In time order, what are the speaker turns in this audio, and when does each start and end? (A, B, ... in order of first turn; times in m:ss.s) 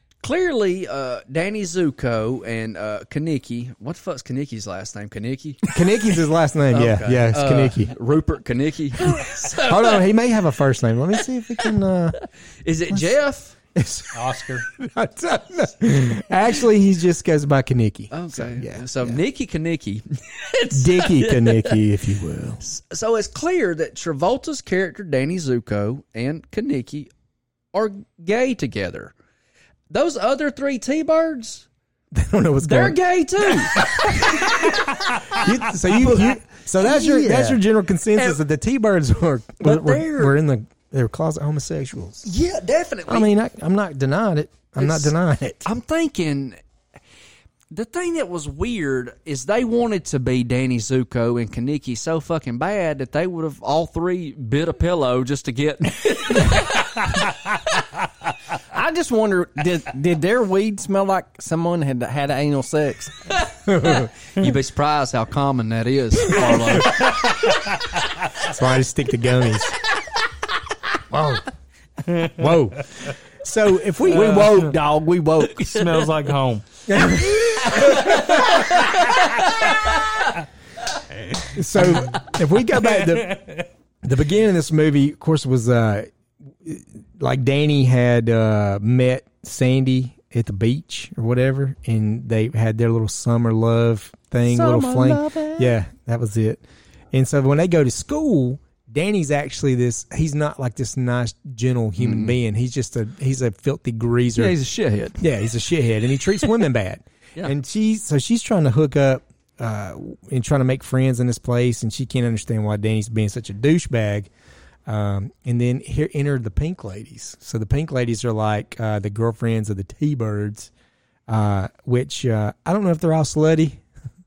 0:00.2-0:05.7 A
0:05.7-0:07.9 B
0:06.7-0:10.1 A
0:09.3-0:12.2 B
0:12.2-0:13.6 A
0:13.8-0:19.2 B
0:14.1-0:14.7 C
0:18.1-0:21.8 A
0:20.7-0:22.6 B
0:22.6-0:27.1 A
0:27.7-0:29.2 A
0:29.9-0:31.7 A
0:32.1-0:33.0 B
0:32.6-0:37.6 A
0:34.1-0:34.4 B
0:35.3-0:42.3 B
0:38.2-0:38.4 A
0:39.6-0:40.4 A
0:42.2-0:43.3 A
0:43.1-0:45.7 B
0:44.8-0:45.1 A
0:45.6-0:46.6 A
0:47.7-0:57.1 A
0:58.7-1:03.2 D
1:03.4-1:07.4 A
1:03.7-1:04.1 B
1:08.4-1:09.8 B
1:11.1-1:11.4 B
1:12.3-1:14.8 B
1:14.1-1:16.1 D
1:14.2-1:14.5 C
1:15.6-1:16.7 C
1:16.9-1:18.7 B
1:17.7-1:19.7 A
1:21.5-1:23.4 B
1:22.8-1:23.7 C
1:24.0-1:26.1 B
1:26.6-1:36.6 B
1:34.4-1:35.8 D
1:37.1-1:44.5 B
1:42.0-1:42.4 A
1:44.4-1:45.2 A
1:45.2-1:54.3 B
1:54.9-2:00.7 B
2:01.3-2:03.8 B